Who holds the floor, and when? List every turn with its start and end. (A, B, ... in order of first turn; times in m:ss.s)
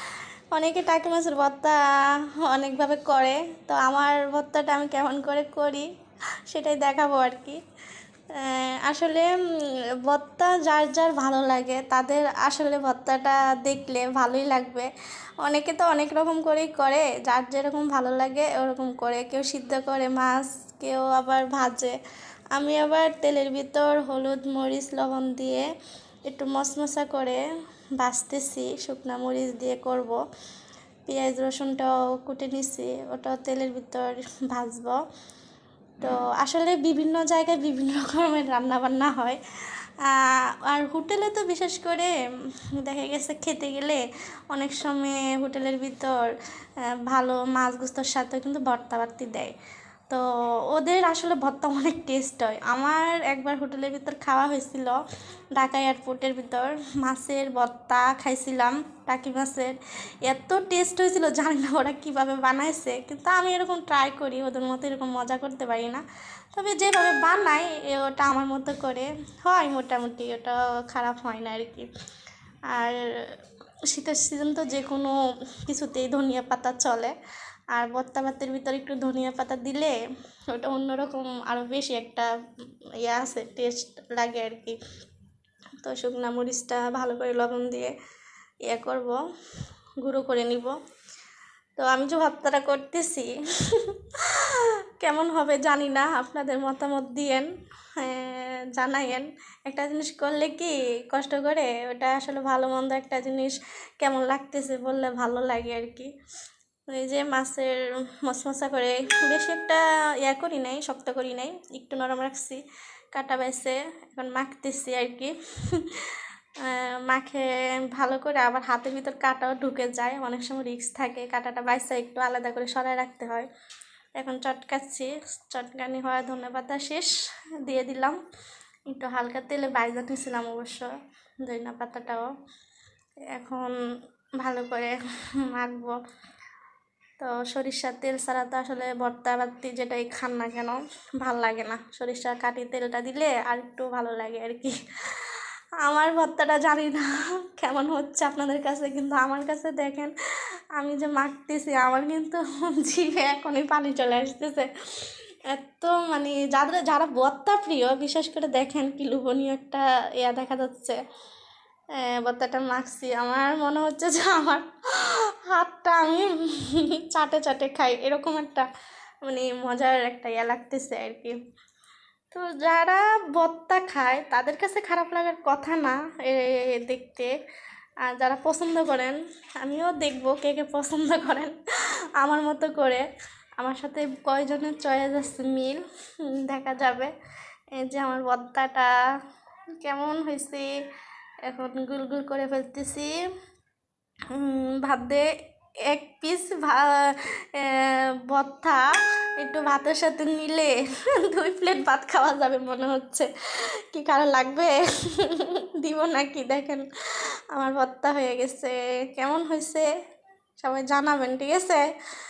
0:00.5-0:01.8 A
0:02.4-0:05.8 A
0:06.5-0:07.6 A
0:08.3-0:09.3 A
0:10.0-0:14.9 A
0:15.4-0:22.0 A
0:22.5-0:25.6 A
0:26.3-0:27.4 A
0:28.0-0:30.2 A
0:31.0-0:35.0 A
0:36.0-0:39.4 A
0:40.0-0:42.1 A
0:42.8-0:46.3 A
0:47.0-0:49.5 A
0:50.1-0:55.0 A
0:55.5-1:06.0 A
1:06.5-1:11.9 A
1:12.7-1:13.4 A
1:13.9-1:17.1 A
1:17.7-1:20.0 A
1:20.5-1:22.3 A
1:23.0-1:24.8 A
1:25.8-1:27.9 A
1:28.7-1:29.2 A
1:30.0-1:30.7 A
1:31.8-1:46.1 A
1:46.9-1:52.6 A
1:53.1-2:03.4 A
2:04.2-2:07.1 A
2:07.6-2:08.2 A
2:08.9-2:10.9 A
2:11.4-2:12.3 A
2:13.3-2:13.7 A
2:14.4-2:15.0 A
2:15.5-2:16.0 A
2:17.2-2:30.1 A
2:30.8-2:41.0 A
2:42.0-2:48.6 A
2:49.2-2:51.4 A
2:52.3-2:57.3 A
2:58.1-3:01.6 A
3:02.2-3:03.0 A
3:03.6-3:07.1 A
3:07.8-3:08.9 A
3:09.8-3:10.7 A
3:11.5-3:13.1 A
3:14.3-3:15.3 A
3:15.9-3:18.8 A
3:19.4-3:23.3 A
3:23.9-3:26.8 A
3:27.5-3:29.9 A
3:30.6-3:31.8 A